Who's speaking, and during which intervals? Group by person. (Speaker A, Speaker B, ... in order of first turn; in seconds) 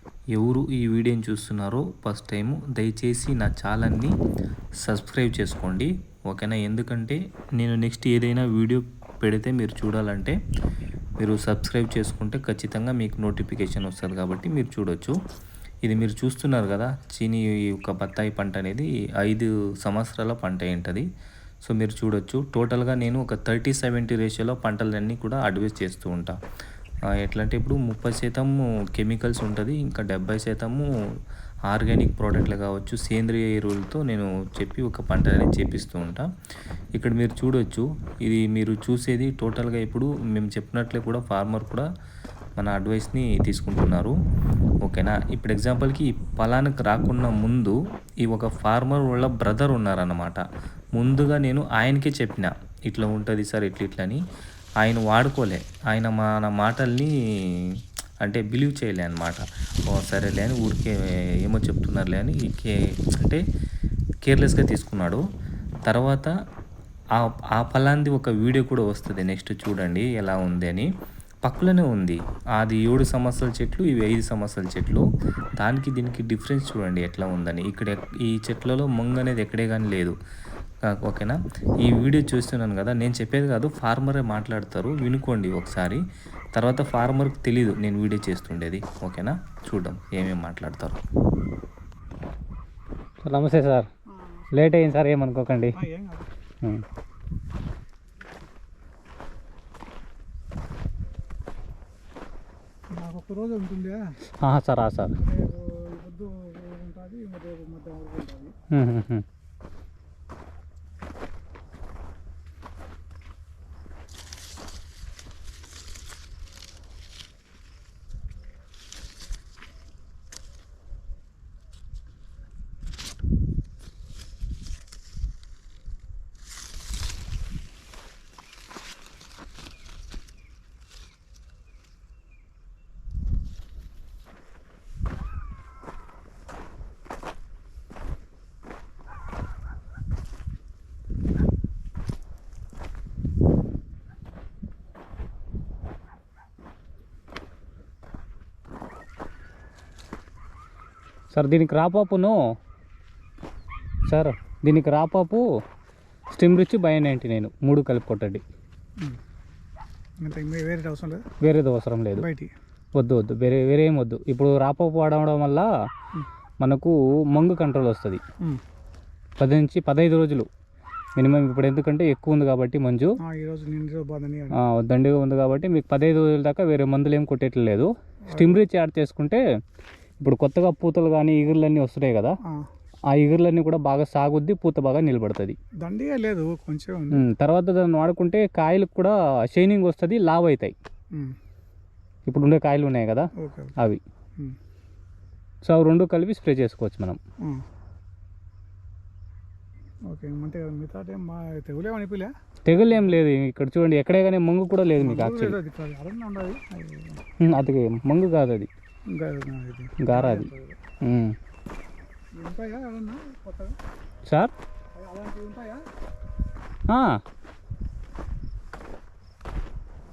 Speaker A: 0.3-4.1, 4.8-10.4, 11.2-15.2, 15.8-21.1, 21.6-26.4, 27.2-30.9, 31.7-36.3, 37.0-41.9, 42.6-44.1, 44.8-50.4, 51.0-54.2, 54.8-57.7, 58.2-63.4, 64.2-65.2, 65.9-66.3, 67.2-70.9, 71.4-75.0, 75.6-80.1, 80.9-86.0, 86.5-91.0
Speaker B: 93.2-93.9, 94.5-95.8, 104.4-105.2, 108.7-109.2, 151.3-152.4, 154.1-155.5, 156.3-158.4, 161.4-162.3, 162.9-165.7, 166.6-168.2, 169.4-170.5, 171.2-173.2, 174.5-179.4, 180.2-182.4, 183.1-185.6, 187.1-190.7, 192.3-194.0, 195.6-197.2, 202.7-205.6, 207.4-208.7, 210.0-210.5, 211.0-211.3, 214.3-214.5, 216.9-217.2
Speaker C: 95.8-96.3, 103.0-104.0, 105.2-108.5, 160.2-161.2, 162.2-162.5, 173.2-174.5, 185.8-187.2, 193.4-193.7, 200.1-202.3, 205.0-207.2, 209.1-210.7, 212.4-213.7, 215.0-215.8